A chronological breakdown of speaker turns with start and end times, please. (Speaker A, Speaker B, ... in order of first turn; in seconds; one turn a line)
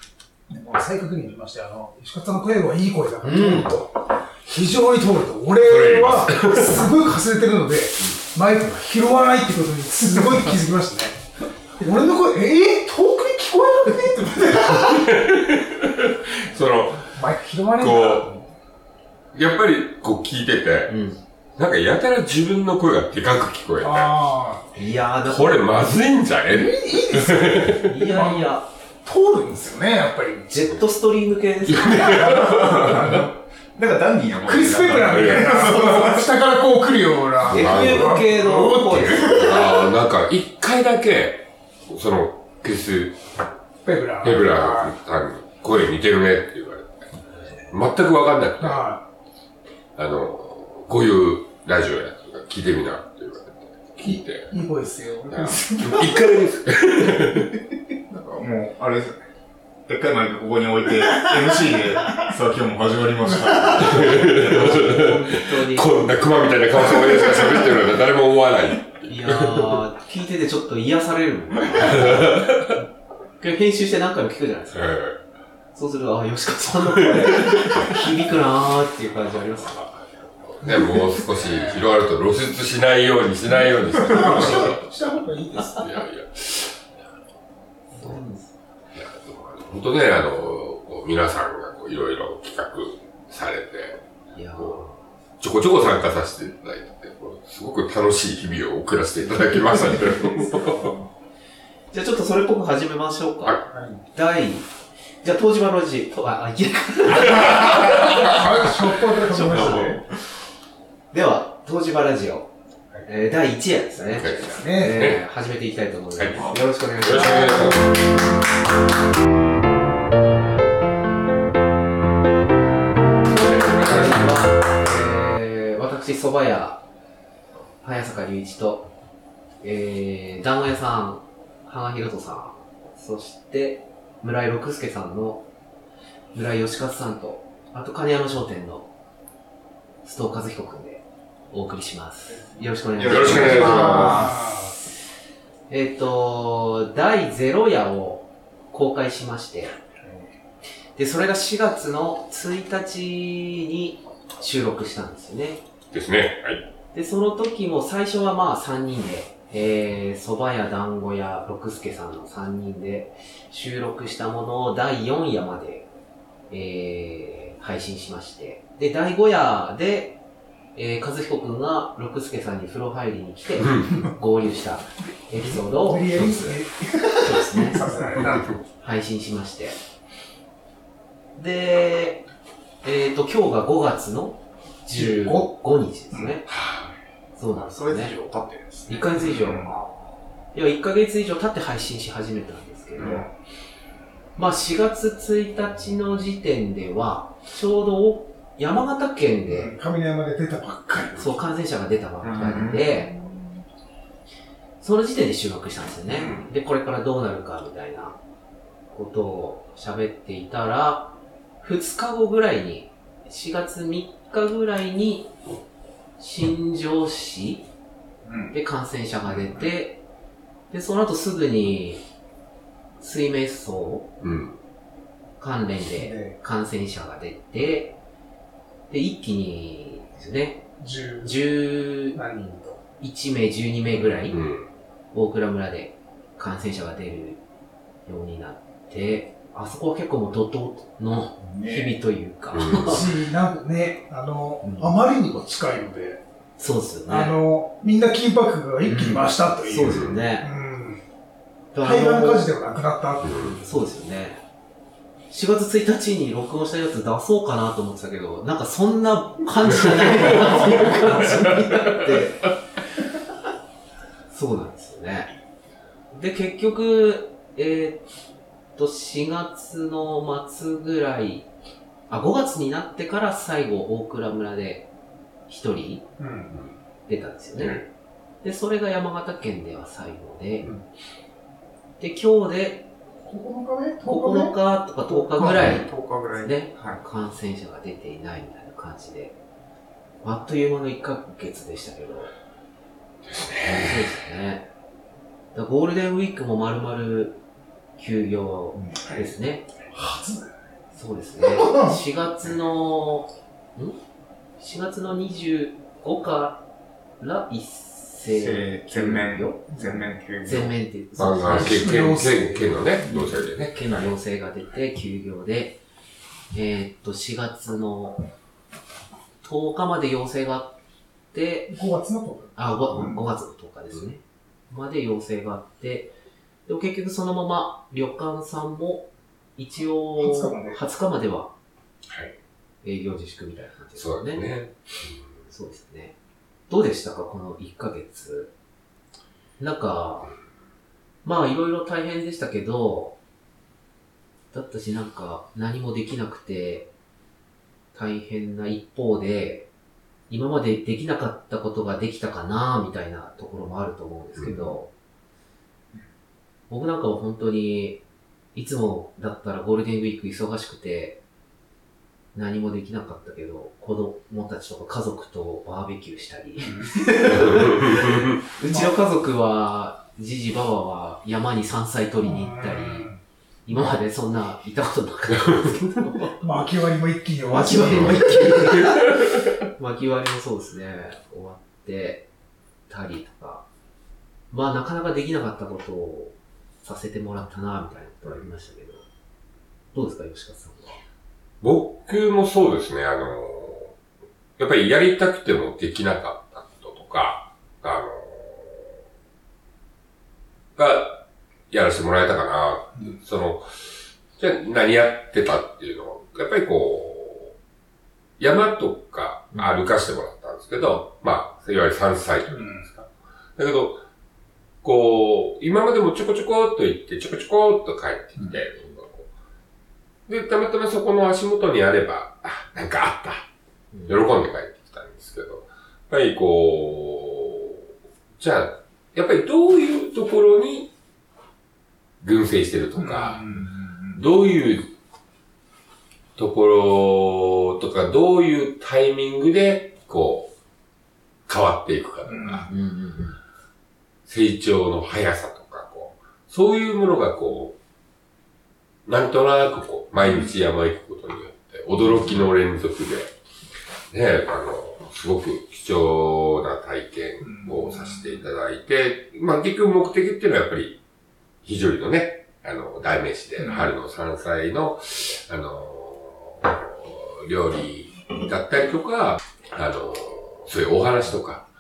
Speaker A: 0.5-11.2
Speaker B: 3.2-3.7
Speaker C: 5.6-6.9
Speaker A: 11.8-14.9
Speaker C: 14.4-17.1
Speaker A: 17.1-18.5
Speaker C: 17.7-18.3
Speaker C: 19.3-20.9
Speaker B: 20.9-21.2
Speaker C: 21.6-24.1
Speaker A: 23.8-24.6
Speaker B: 24.8-25.9
Speaker C: 25.3-27.9
Speaker A: 26.5-30.6
Speaker B: 27.8-28.7
Speaker B: 30.5-32.5
Speaker C: 31.7-33.1
Speaker D: 32.5-36.3
Speaker A: 34.5-39.7
Speaker C: 35.0-35.7
Speaker C: 37.4-38.1
Speaker B: 37.5-39.7
Speaker C: 39.0-43.2
Speaker A: 43.8-44.9
Speaker C: 44.2-47.1
Speaker C: 47.7-48.9
Speaker A: 48.6-49.0
Speaker C: 50.0-54.5
Speaker A: 54.0-56.2
Speaker C: 55.3-57.6
Speaker D: 58.1-59.2
Speaker D: 59.9-64.8
Speaker C: 63.8-69.8
Speaker B: 64.5-66.0
Speaker B: 69.1-72.4
Speaker C: 71.7-72.8
Speaker B: 73.4-75.0
Speaker C: 74.7-75.2
Speaker B: 75.7-79.9
Speaker C: 77.0-77.9
Speaker C: 80.4-84.8
Speaker A: 83.5-85.9
Speaker C: 85.8-87.0
Speaker B: 88.0-88.5
Speaker C: 88.9-94.0
Speaker B: 94.3-94.9
Speaker C: 94.6-100.9
Speaker A: 99.9-101.0
Speaker B: 101.9-103.6
Speaker A: 103.7-104.0
Speaker B: 104.1-104.7
Speaker B: 105.2-110.0
Speaker C: 107.6-108.2
Speaker A: 108.2-110.0
Speaker C: 109.5-110.0
Speaker B: 111.1-112.5
Speaker B: 113.0-117.8
Speaker C: 114.1-115.2
Speaker A: 114.2-115.0
Speaker C: 116.2-117.9
Speaker C: 123.3-124.5
Speaker B: 123.4-126.8
Speaker B: 127.8-128.9
Speaker B: 129.6-135.5
Speaker B: 136.3-138.9
Speaker B: 140.0-144.8
Speaker D: 143.0-144.3
Speaker C: 143.0-144.3
Speaker A: 143.3-144.7
Speaker B: 145.7-149.7
Speaker B: 151.0-155.6
Speaker C: 155.9-156.7
Speaker B: 156.9-165.9
Speaker B: 166.5-170.2
Speaker B: 170.8-176.5
Speaker A: 175.4-178.6
Speaker C: 176.2-176.4
Speaker B: 177.2-179.8
Speaker C: 178.2-178.5
Speaker B: 181.4-182.3
Speaker B: 182.8-186.5
Speaker A: 184.9-185.5
Speaker C: 186.5-186.9
Speaker B: 187.4-188.3
Speaker D: 187.6-189.8
Speaker B: 188.9-189.8
Speaker B: 190.5-193.3
Speaker D: 193.0-193.3
Speaker B: 194.4-199.7
Speaker A: 199.5-201.3
Speaker B: 201.2-203.1
Speaker D: 202.2-203.0
Speaker B: 204.8-208.2
Speaker D: 206.1-206.5
Speaker B: 208.9-215.3
Speaker B: 216.2-217.7
Speaker A: 218.3-218.6
Speaker B: 218.5-220.0
Speaker B: 220.7-222.0
Speaker B: 223.0-224.1
Speaker C: 224.2-224.6
Speaker B: 225.4-228.0
Speaker A: 225.9-226.4
Speaker B: 228.9-230.6
Speaker A: 230.8-231.4
Speaker B: 231.2-232.2
Speaker A: 232.1-232.8
Speaker B: 233.0-234.4
Speaker C: 234.3-234.7
Speaker B: 235.1-237.4
Speaker B: 238.1-243.0
Speaker A: 241.4-241.9
Speaker C: 242.5-243.0
Speaker A: 242.8-246.2
Speaker B: 244.6-244.9
Speaker B: 246.6-247.4
Speaker A: 247.1-251.0
Speaker B: 248.8-250.5
Speaker C: 249.8-250.2
Speaker B: 251.7-252.5
Speaker A: 251.8-253.3
Speaker C: 253.2-253.7
Speaker B: 253.6-254.4
Speaker B: 255.3-262.5
Speaker C: 260.2-262.2
Speaker B: 264.3-265.3
Speaker B: 266.1-268.1
Speaker B: 268.8-271.5
Speaker B: 272.1-274.9
Speaker B: 275.5-276.1
Speaker A: 276.2-276.5
Speaker C: 276.5-276.8
Speaker B: 277.1-277.8
Speaker C: 277.6-277.9
Speaker B: 278.4-280.7
Speaker B: 282.0-282.9
Speaker A: 283.2-284.5
Speaker B: 284.0-289.4
Speaker D: 285.1-287.0
Speaker B: 290.2-292.3
Speaker C: 293.3-294.1
Speaker B: 293.7-294.7
Speaker B: 295.5-297.4
Speaker B: 298.0-299.7
Speaker C: 299.1-299.3
Speaker A: 299.9-300.5
Speaker B: 300.9-304.0
Speaker A: 301.5-302.0
Speaker B: 304.6-306.6
Speaker B: 307.2-311.9
Speaker D: 308.3-310.7
Speaker A: 309.7-310.0
Speaker C: 311.2-314.2
Speaker A: 311.5-313.0
Speaker B: 313.7-315.8
Speaker B: 316.5-318.2
Speaker B: 319.4-320.7
Speaker B: 321.3-321.7
Speaker A: 321.7-323.2
Speaker B: 322.6-326.1
Speaker B: 326.7-331.5
Speaker A: 330.2-330.8
Speaker C: 332.1-332.4
Speaker B: 332.8-334.5
Speaker C: 333.9-335.4
Speaker B: 335.5-336.1
Speaker B: 336.7-338.5
Speaker B: 339.6-340.4
Speaker B: 341.2-343.2
Speaker B: 344.5-346.9
Speaker B: 347.9-349.7
Speaker B: 350.3-354.9
Speaker C: 354.4-354.8
Speaker B: 356.7-358.0
Speaker B: 358.6-361.2
Speaker B: 362.3-373.1
Speaker A: 366.6-367.0
Speaker C: 367.4-368.4
Speaker A: 372.2-373.2
Speaker B: 373.7-376.4
Speaker C: 375.5-375.8
Speaker A: 376.4-378.2
Speaker B: 377.4-382.3
Speaker C: 377.8-379.0
Speaker B: 382.9-383.7
Speaker B: 384.5-389.1
Speaker B: 389.9-391.0
Speaker C: 391.6-393.9
Speaker C: 394.6-398.9
Speaker C: 400.8-403.7
Speaker C: 404.4-407.6
Speaker C: 408.4-414.0
Speaker A: 412.5-412.9
Speaker C: 414.8-419.3
Speaker C: 420.3-423.5
Speaker C: 424.1-427.9
Speaker C: 428.4-430.9
Speaker C: 432.2-433.5
Speaker A: 433.0-434.1
Speaker C: 434.1-434.9
Speaker C: 436.4-440.5
Speaker C: 441.5-442.7
Speaker A: 442.3-442.7
Speaker B: 442.7-443.4
Speaker C: 444.3-447.8
Speaker C: 449.1-453.3
Speaker C: 454.1-461.0
Speaker A: 457.4-458.0
Speaker C: 461.6-471.7
Speaker A: 463.6-463.9